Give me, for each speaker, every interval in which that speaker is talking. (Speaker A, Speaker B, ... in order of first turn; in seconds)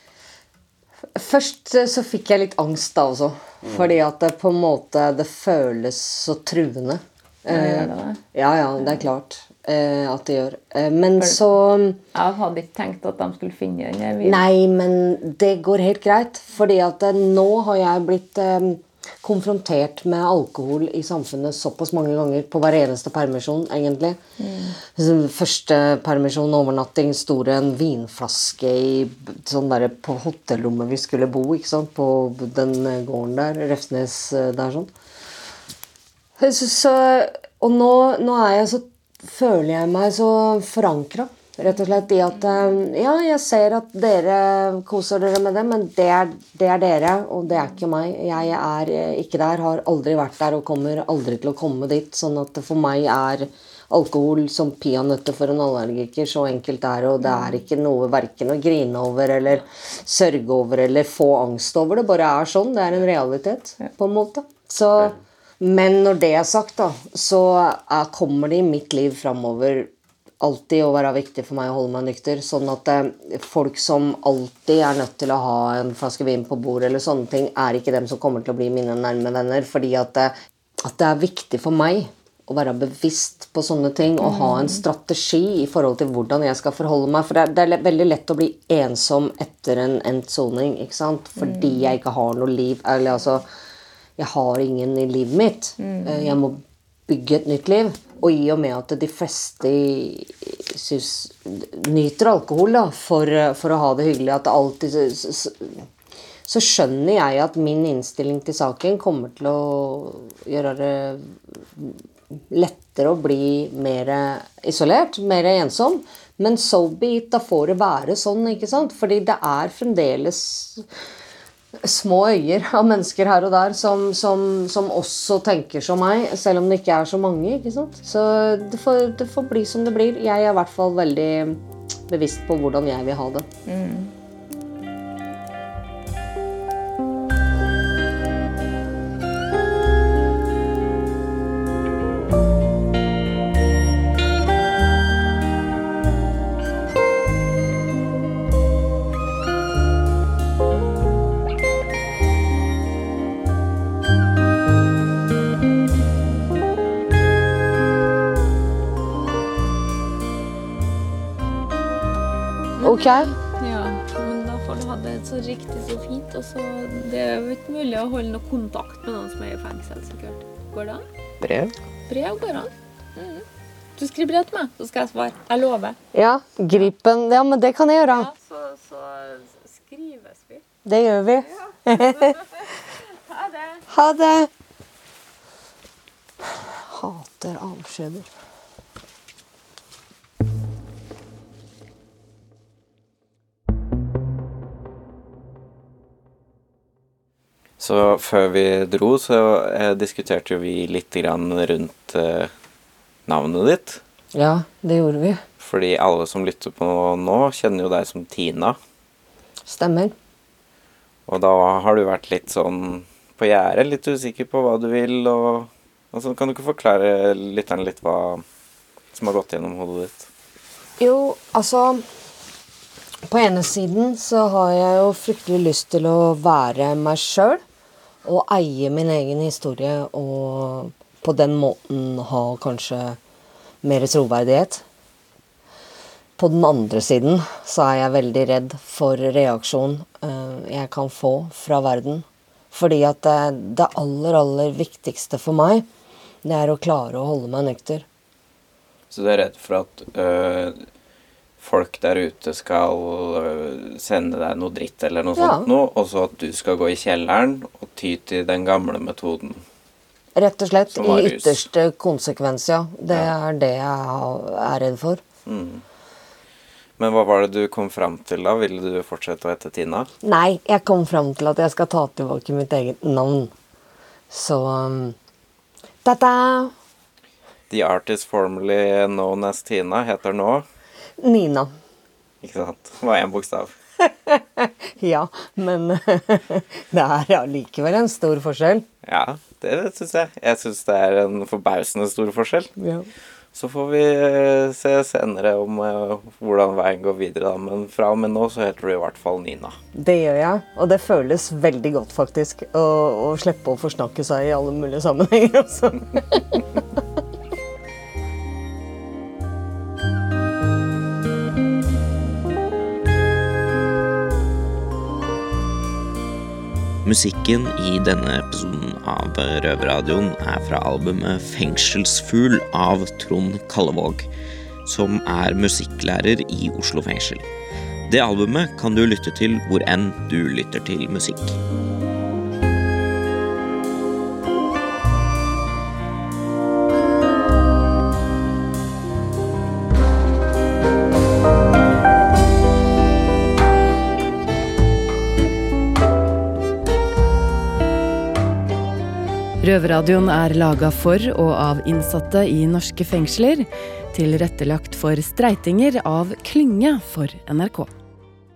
Speaker A: 1.1-12.0, 14.2-24.2, 24.8-34.9, 36.4-93.5, 94.2-105.9, 106.5-120.9, 121.8-133.4, 162.8-163.3, 171.4-171.7, 176.1-178.3, 180.8-182.4, 183.9-184.5, 186.4-188.3, 204.3-205.4, 209.7-210.1, 221.0-222.1, 223.3-227.6, 228.2-233.2, 233.8-234.8, 236.4-245.8, 246.4-248.1, 255.3-255.7, 260.3-265.2, 270.2-273.5, 274.3-275.1, 276.0-276.7, 281.2-281.7, 284.0-288.9, 292.8-293.1, 299.9-307.0
Speaker B: 7.5-8.2, 12.1-14.4, 24.4-24.8, 84.2-84.8, 91.4-91.8, 95.8-96.2, 133.7-134.1, 162.8-171.0, 172.1-173.4, 174.0-176.0, 178.1-180.6, 182.1-182.4, 183.3-183.8
Speaker C: 197.8-202.5, 203.3-204.0, 205.6-208.8, 211.3-218.4, 219.1-220.3, 249.1-250.8, 251.6-259.6, 260.9-261.6, 265.4-265.8, 267.0-270.1, 277.7-280.6, 282.4-283.7, 289.1-292.7, 293.5-299.8
Speaker D: 317.0-324.3, 324.9-327.5, 328.1-331.6
Speaker E: 349.6-357.9